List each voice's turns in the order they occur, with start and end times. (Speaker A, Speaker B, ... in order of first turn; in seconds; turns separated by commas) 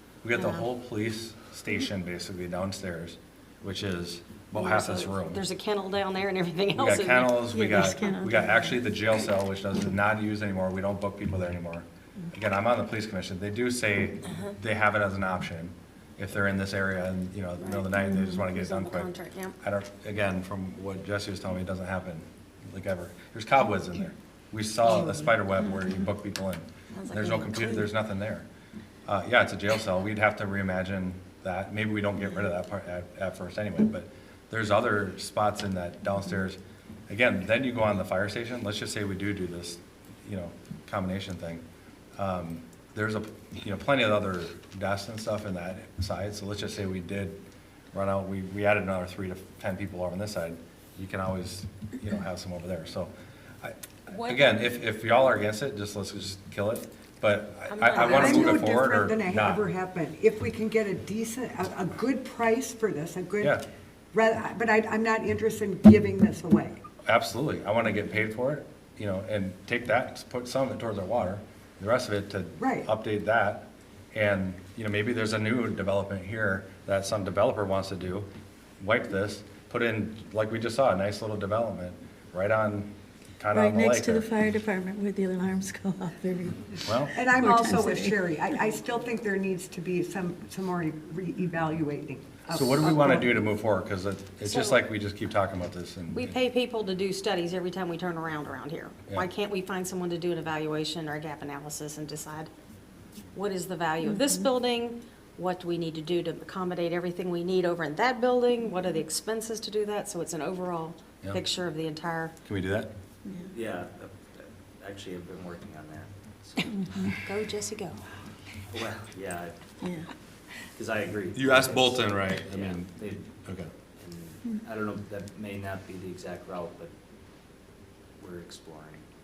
Speaker A: 0.2-5.4, Speaker B: 0.3-0.7, Speaker B: 4.5-8.4, Speaker A: 6.8-28.4, Speaker C: 7.6-8.4, Speaker B: 17.6-19.6, Speaker B: 26.9-27.9, Speaker A: 29.1-41.6, Speaker A: 42.2-47.4, Speaker A: 47.9-59.6, Speaker B: 54.1-54.5, Speaker B: 57.7-58.6, Speaker D: 58.0-63.6, Speaker D: 64.1-66.8, Speaker A: 67.0-78.3, Speaker D: 72.6-72.9, Speaker A: 78.8-84.3, Speaker C: 83.5-88.2, Speaker A: 86.8-87.1, Speaker D: 87.1-93.3, Speaker A: 92.5-96.4, Speaker B: 94.5-94.8, Speaker B: 96.1-102.5, Speaker B: 103.3-112.3, Speaker C: 104.1-104.4, Speaker A: 112.5-112.9, Speaker C: 113.2-113.5, Speaker E: 113.5-116.7, Speaker C: 116.8-117.2, Speaker B: 117.1-118.0, Speaker E: 118.7-119.5, Speaker C: 119.8-120.1, Speaker E: 120.7-123.3, Speaker A: 121.3-122.9, Speaker A: 123.4-123.7, Speaker E: 124.0-126.9, Speaker E: 128.2-129.0